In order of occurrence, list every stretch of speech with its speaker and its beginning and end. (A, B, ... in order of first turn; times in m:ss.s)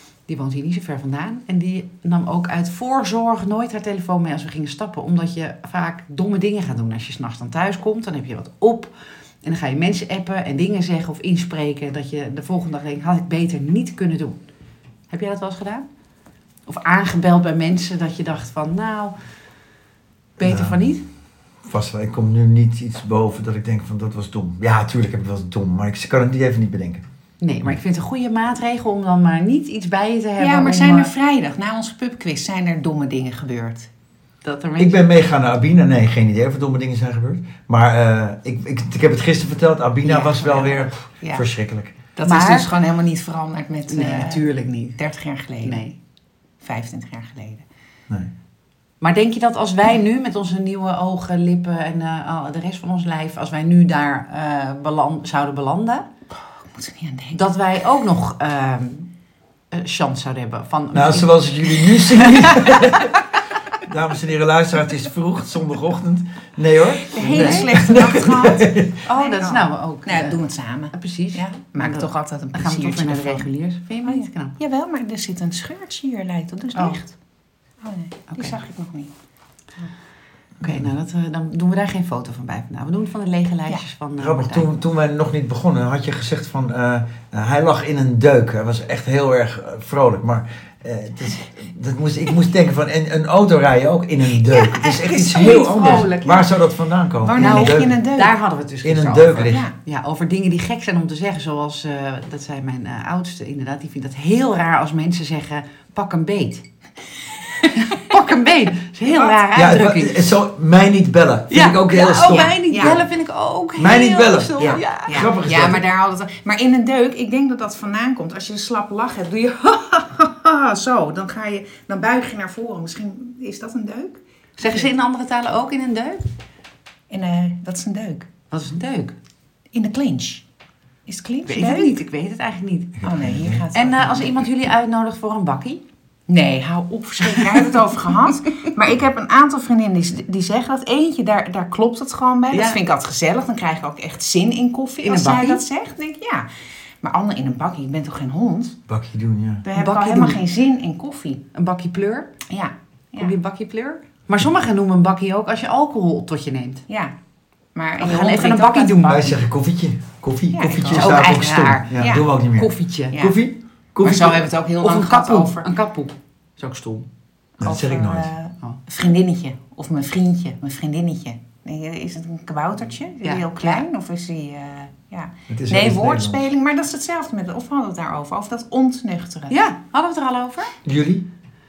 0:00.3-0:14.4 A
0:15.1-0:15.8 A
0:16.7-0:19.1 A
0:20.4-0:21.0 A
0:20.4-0:20.8 B
0:21.6-0:27.0 B
0:27.4-0:31.1 A
0:30.4-0:33.9 C
0:34.4-0:35.0 A
0:34.8-0:41.9 B
0:40.0-0:40.8 A
0:41.2-0:41.4 C
0:42.2-0:42.7 A
0:42.2-0:45.8 C
0:43.9-0:45.0 A
0:45.6-0:45.9 A
0:46.6-0:47.6 C
0:49.0-0:56.0 A
0:56.3-0:57.4 C
0:57.3-0:59.1 A
0:59.7-1:02.9 A
1:00.9-1:03.2 B
1:03.8-1:09.0 B
1:07.1-1:13.5 C
1:07.2-1:08.1 A
1:09.0-1:10.4 A
1:10.9-1:14.6 A
1:14.0-1:17.1 C
1:16.7-1:17.0 A
1:17.8-1:19.1 C
1:18.3-1:18.6 A
1:20.6-1:20.9 B
1:20.6-1:24.7 A
1:24.2-1:38.0 B
1:34.3-1:36.2 C
1:35.3-1:36.4 A
1:37.2-1:38.4 C
1:37.4-1:46.6 A
1:38.8-1:39.6 B
1:39.4-1:39.7 C
1:47.6-1:50.2 A
1:49.2-1:52.5 B
1:51.5-1:55.2 A
1:52.2-1:53.0 C
1:53.8-1:55.8 B
1:54.6-2:04.9 C
2:04.6-2:06.2 A
2:07.1-2:08.3 C
2:08.5-2:09.1 A
2:09.7-2:10.4 C
2:11.0-2:12.0 C
2:11.5-2:13.0 A
2:13.0-2:13.7 B
2:13.0-2:14.4 C
2:13.7-2:15.8 A
2:16.3-2:26.5 C
2:17.3-2:17.6 A
2:22.5-2:22.8 A
2:25.0-2:25.6 A
2:27.0-2:28.8 C
2:28.9-2:29.6 B
2:29.6-2:31.4 C
2:29.7-2:30.4 A
2:31.5-2:32.4 A
2:32.5-2:33.3 C
2:33.2-2:36.8 A
2:36.9-2:37.1 C
2:37.7-2:39.2 C
2:38.0-2:39.4 A
2:39.0-2:44.4 B
2:40.5-2:42.3 C
2:40.9-2:41.8 A
2:42.5-2:43.2 A
2:43.1-2:43.4 C
2:44.0-2:45.7 C
2:44.8-2:47.0 A
2:47.6-2:48.3 B
2:47.6-2:59.5 C
2:53.2-2:53.8 A
2:55.5-2:56.5 B
2:59.5-3:00.8 A
3:00.8-3:01.2 B